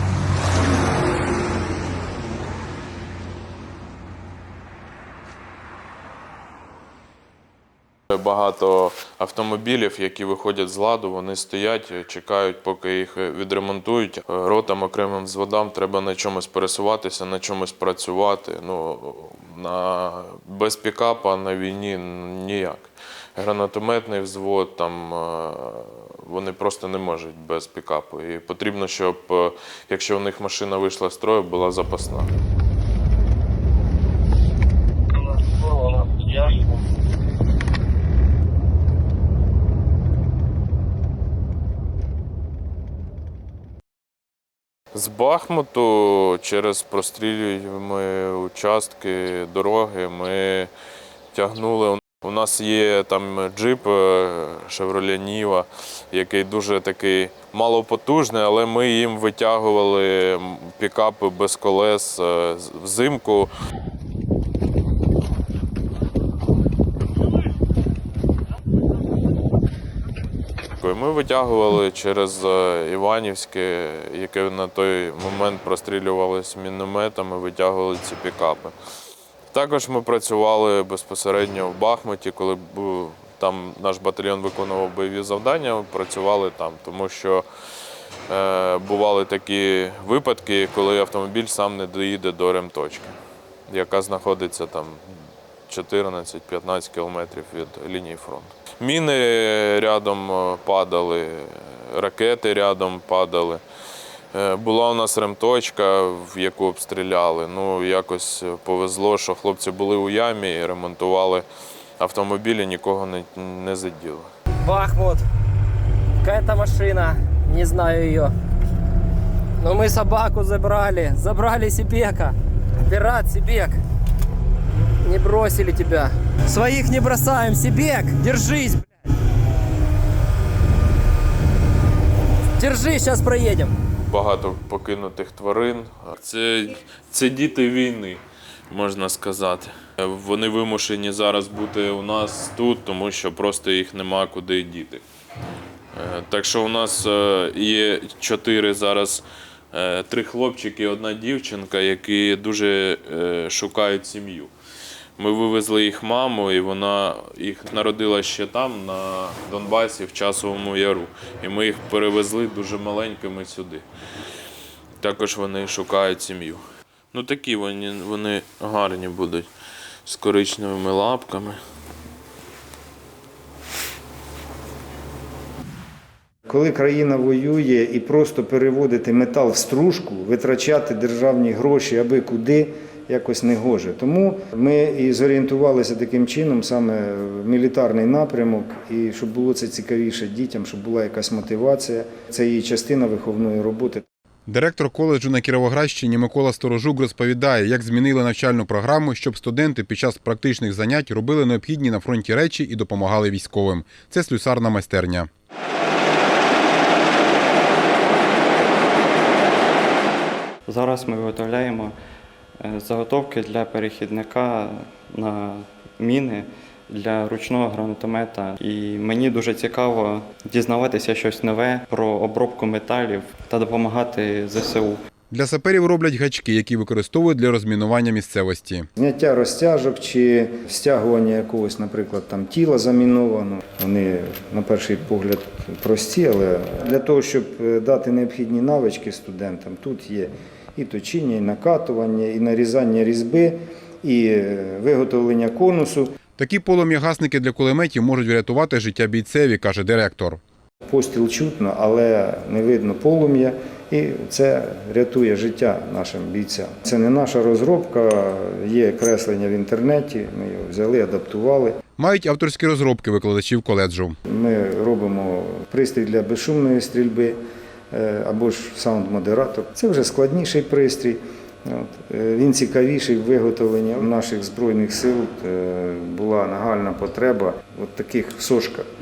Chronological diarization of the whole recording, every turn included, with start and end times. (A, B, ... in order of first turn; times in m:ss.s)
0:08.1-0:32.3 A
0:44.9-0:50.7 A
0:51.3-1:03.5 A
1:10.8-1:18.8 A
1:19.5-1:27.4 A
1:28.3-1:33.2 A
1:33.7-1:35.2 A
1:35.7-1:43.6 A
1:44.3-1:51.5 A
1:52.0-1:54.3 A
1:54.6-1:55.2 B
1:56.2-1:58.3 B
1:59.6-2:02.3 B
2:02.9-2:03.8 B
2:05.0-2:08.8 B
2:12.6-2:13.7 B
2:14.1-2:25.0 A
2:25.9-2:34.5 A
2:35.2-2:43.9 A
2:45.0-2:49.5 A
2:50.0-2:51.6 A
2:56.5-3:14.0 C
3:14.5-3:25.3 D
3:30.7-3:32.0 E
3:32.6-3:45.0 E
3:45.3-3:48.9 D
3:49.0-4:06.1 C
4:06.4-4:10.4 D
4:10.9-4:21.8 C
4:22.0-4:24.2 D
4:24.3-4:27.4 C
4:27.9-4:38.9 C